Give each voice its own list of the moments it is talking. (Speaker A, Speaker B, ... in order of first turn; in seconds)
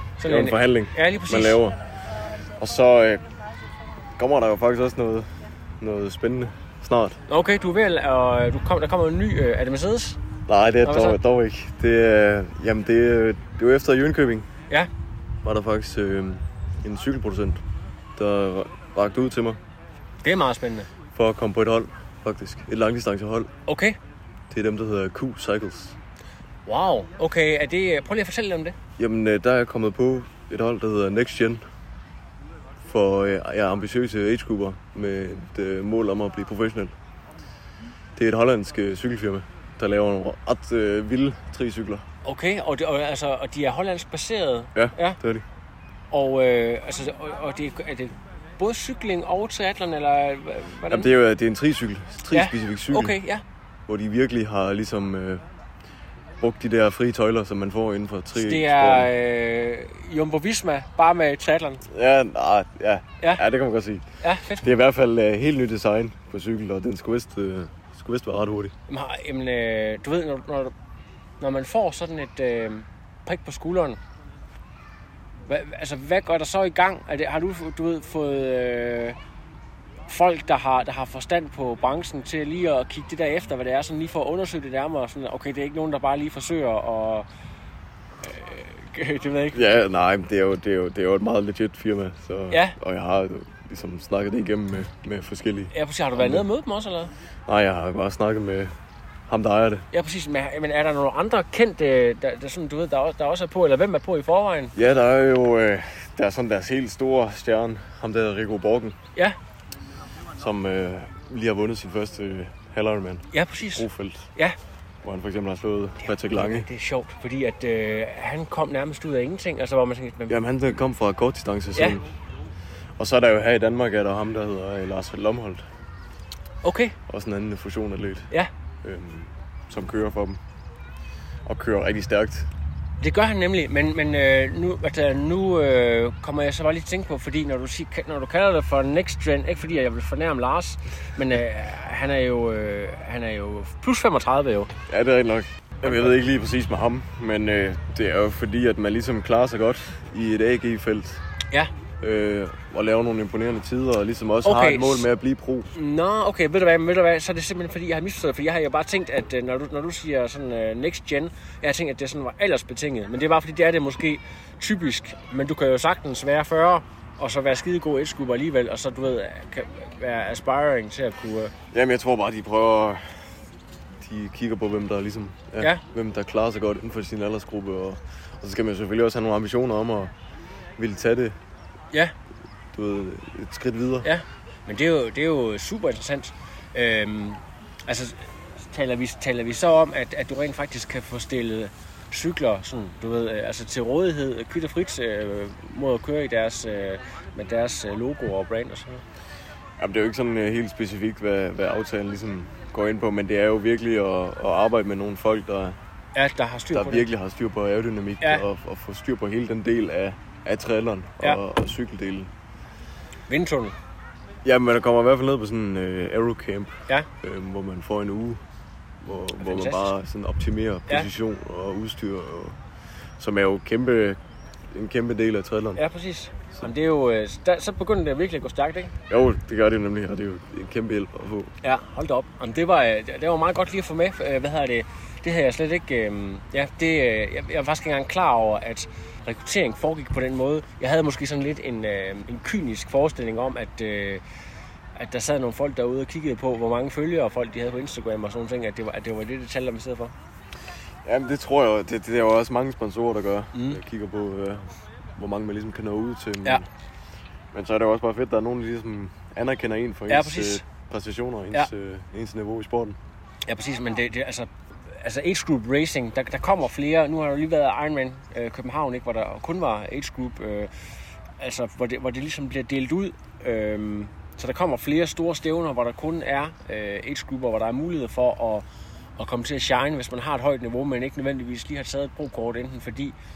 Speaker A: 0.2-1.6, 7.3-10.2, 10.8-11.2, 20.2-20.9, 23.6-24.0, 26.6-28.8, 42.2-45.2, 46.1-51.1, 52.3-53.4, 58.3-61.8, 64.2-64.7, 68.9-70.7, 71.4-74.0, 75.5-79.2, 80.1-87.2, 88.2-89.6, 95.7-97.1, 99.9-104.7, 113.3-114.5, 116.2-120.4, 126.6-127.0, 133.0-144.7, 145.8-146.1, 154.4-155.1, 155.7-171.5, 184.0-199.0, 206.1-207.1, 213.3-213.8, 219.4-219.9, 225.8-228.9, 231.6-244.2, 244.9-250.1, 253.5-253.8, 260.1-260.6, 263.4-270.7, 271.4-278.6, 279.2-283.1
Speaker B: 0.2-1.8, 2.6-3.2, 4.2-7.2, 10.5-14.5, 15.4-17.6, 18.1-19.6, 21.1-23.5, 24.5-25.9, 29.0-31.6, 32.8-36.9, 38.1-42.0, 44.7-45.4, 50.9-53.2, 53.9-55.4, 56.4-59.1, 61.9-64.0, 64.6-68.7, 89.5-96.4, 97.5-98.7, 99.3-99.8, 104.7-109.0, 110.3-114.3, 115.0-116.7, 120.3-122.0, 123.0-125.6, 127.1-128.3, 128.8-130.4, 131.4-132.5, 144.9-151.2, 152.0-155.7, 171.7-173.2, 174.0-180.1, 180.8-181.4, 182.7-184.1, 199.8-205.8, 206.7-212.3, 214.4-218.4, 219.0-222.6, 223.2-224.2, 224.7-225.8, 229.1-231.5, 251.0-256.6, 257.5-263.0